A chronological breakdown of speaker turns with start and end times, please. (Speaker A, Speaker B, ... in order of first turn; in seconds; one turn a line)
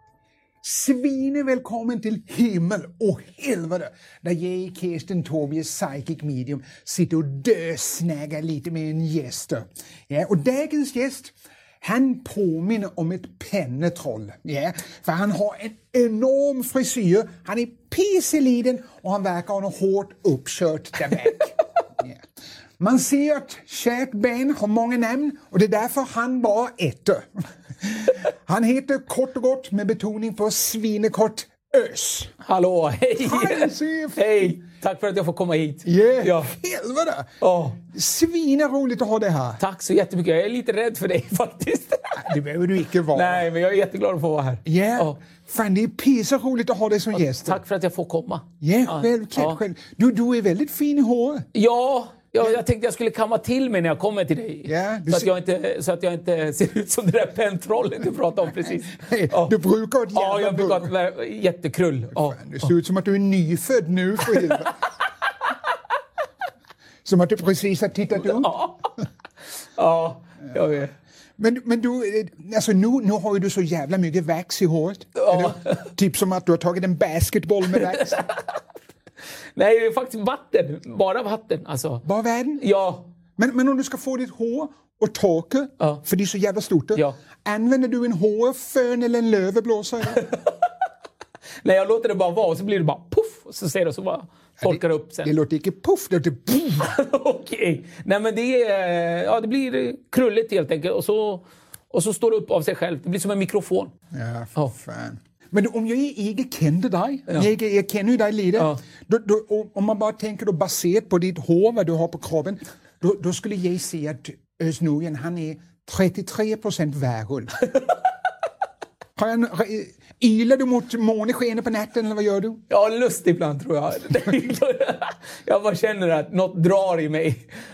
Speaker A: 0.6-22.2
Speaker A: 22.8-27.2
Speaker A: 27.8-32.3
Speaker B: 32.4-36.5
Speaker A: 33.2-34.4
Speaker A: 35.8-37.3
Speaker B: 37.4-37.8
Speaker A: 37.9-39.6
Speaker B: 39.6-42.2
Speaker A: 42.2-43.4
Speaker B: 43.1-45.1
Speaker A: 44.6-47.6
Speaker B: 47.1-49.6
Speaker A: 48.6-51.5
Speaker B: 51.5-59.5
Speaker A: 54.6-55.3
Speaker A: 58.6-60.9
Speaker B: 60.1-62.5
Speaker A: 62.1-64.7
Speaker A: 67.0-68.5
Speaker B: 68.2-68.9
Speaker B: 69.8-70.9
Speaker A: 71.4-78.2
Speaker B: 75.2-75.9
Speaker B: 77.8-78.4
Speaker B: 79.5-82.0
Speaker A: 82.0-82.6
Speaker B: 82.6-83.0
Speaker A: 83.4-90.2
Speaker B: 90.2-90.5
Speaker B: 91.6-95.3
Speaker A: 94.6-96.9
Speaker B: 96.8-103.9
Speaker A: 104.1-117.6
Speaker A: 119.2-122.6
Speaker B: 122.7-127.4